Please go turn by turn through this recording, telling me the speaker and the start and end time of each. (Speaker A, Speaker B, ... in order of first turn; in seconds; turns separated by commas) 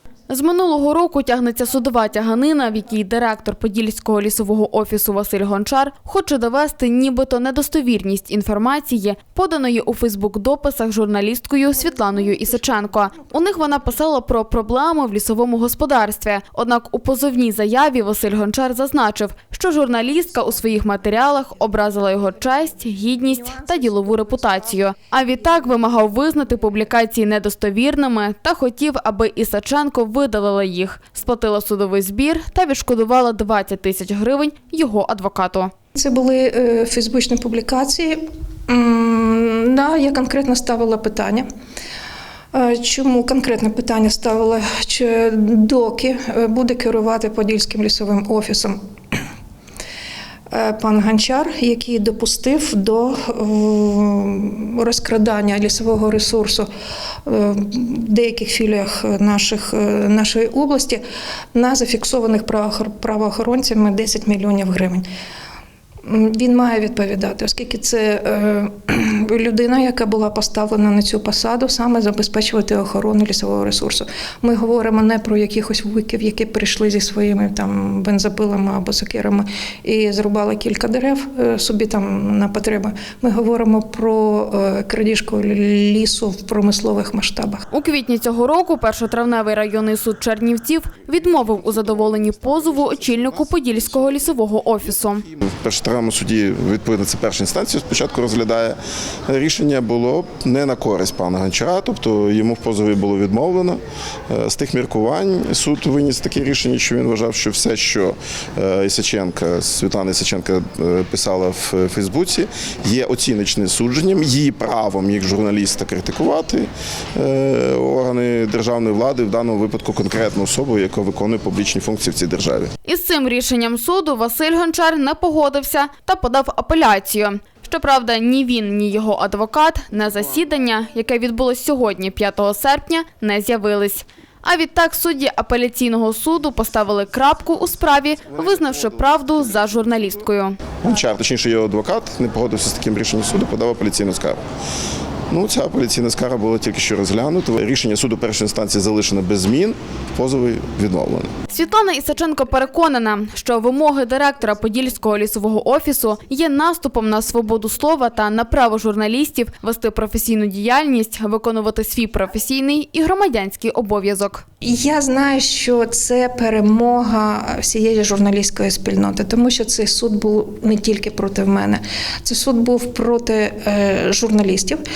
Speaker A: 0.3-35.7, Speaker B: 12.1-13.8, Speaker B: 23.3-24.9, Speaker B: 36.0-41.5, Speaker B: 42.5-48.8, Speaker B: 50.5-56.7, Speaker B: 57.2-61.0, Speaker B: 61.5-65.1, Speaker B: 66.0-87.7, Speaker A: 87.7-95.2, Speaker C: 95.4-98.8, Speaker C: 99.3-122.7, Speaker A: 122.8-140.6, Speaker C: 140.8-144.4, Speaker C: 145.3-151.4, Speaker A: 151.5-164.4, Speaker B: 164.6-174.8